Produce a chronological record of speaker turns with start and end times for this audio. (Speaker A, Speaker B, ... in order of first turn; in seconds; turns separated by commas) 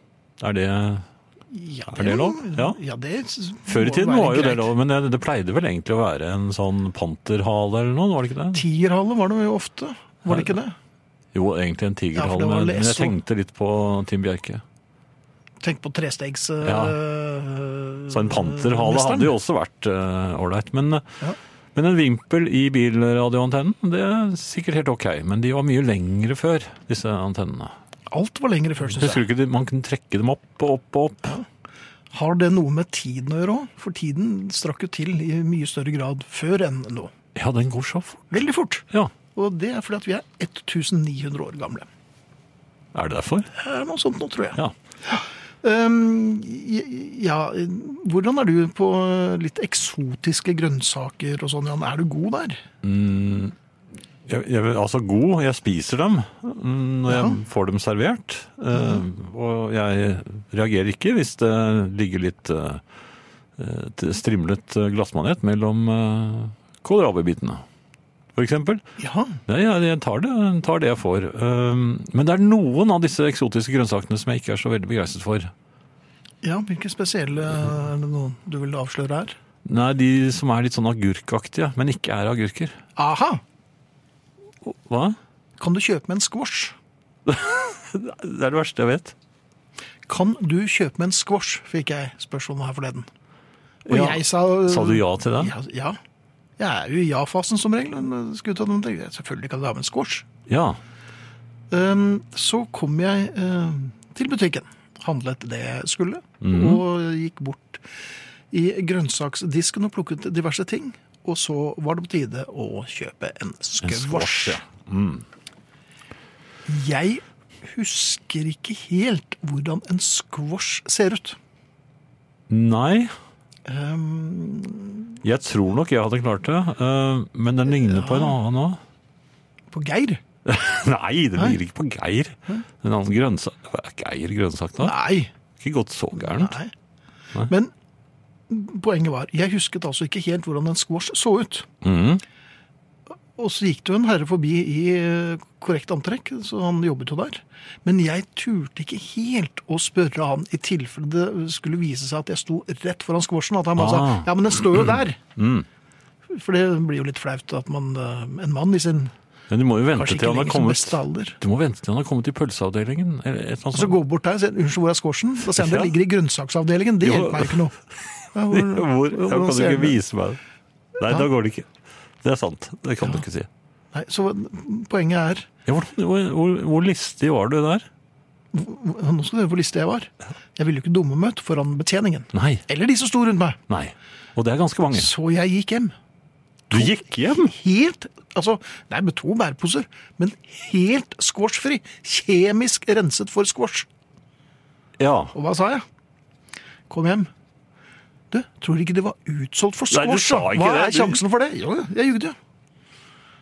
Speaker A: 0.4-1.0, Speaker B: 1.5-4.7, Speaker A: 1.9-2.8, Speaker A: 3.6-8.6, Speaker B: 8.5-10.8, Speaker A: 10.3-10.5, Speaker A: 11.3-14.6, Speaker B: 12.1-13.1, Speaker B: 15.6-19.3, Speaker A: 16.6-16.9, Speaker A: 18.1-21.1, Speaker A: 21.7-27.7, Speaker B: 28.1-29.2, Speaker A: 28.9-31.3, Speaker B: 32.1-37.1, Speaker A: 37.3-38.3, Speaker B: 38.3-41.9, Speaker A: 42.9-43.5, Speaker B: 43.5-52.6, Speaker A: 52.8-53.5, Speaker A: 54.3-62.8, Speaker B: 57.1-57.4, Speaker B: 58.7-59.0, Speaker A: 63.6-67.6, Speaker A: 68.3-68.8, Speaker B: 69.0-69.4, Speaker A: 69.5-75.5, Speaker B: 76.4-79.3, Speaker A: 79.7-82.8, Speaker B: 83.0-83.4, Speaker A: 84.6-85.2, Speaker B: 85.6-86.7, Speaker A: 87.2-89.1, Speaker B: 90.1-93.1, Speaker A: 93.8-95.5, Speaker B: 93.9-96.0, Speaker B: 96.6-100.2, Speaker A: 100.5-100.8, Speaker B: 101.7-107.8, Speaker A: 106.4-106.8, Speaker B: 108.5-114.6, Speaker A: 113.8-115.2, Speaker B: 116.7-121.4, Speaker A: 122.5-123.1, Speaker B: 123.7-125.1, Speaker A: 125.2-128.8, Speaker B: 127.8-128.3, Speaker B: 129.7-130.2, Speaker A: 130.4-134.9, Speaker B: 134.8-135.3, Speaker A: 135.6-136.5, Speaker B: 136.2-136.7, Speaker B: 137.5-137.7, Speaker B: 138.5-141.7, Speaker A: 141.8-142.2, Speaker B: 143.4-155.2, Speaker A: 153.8-155.7, Speaker B: 156.3-159.1, Speaker A: 159.5-164.0, Speaker B: 159.9-161.4, Speaker B: 163.7-167.7, Speaker A: 165.5-165.9, Speaker A: 167.0-167.6, Speaker B: 168.3-169.9, Speaker A: 168.5-170.4, Speaker A: 171.0-171.7, Speaker A: 172.2-173.5, Speaker B: 173.9-175.5, Speaker A: 175.7-177.8, Speaker B: 178.5-183.6, Speaker A: 182.3-182.6, Speaker A: 183.7-185.1, Speaker B: 184.9-185.9, Speaker B: 186.7-193.9, Speaker A: 186.7-187.5, Speaker A: 195.0-195.3, Speaker B: 195.3-195.8, Speaker B: 196.9-197.3, Speaker B: 198.3-202.3, Speaker A: 199.9-201.2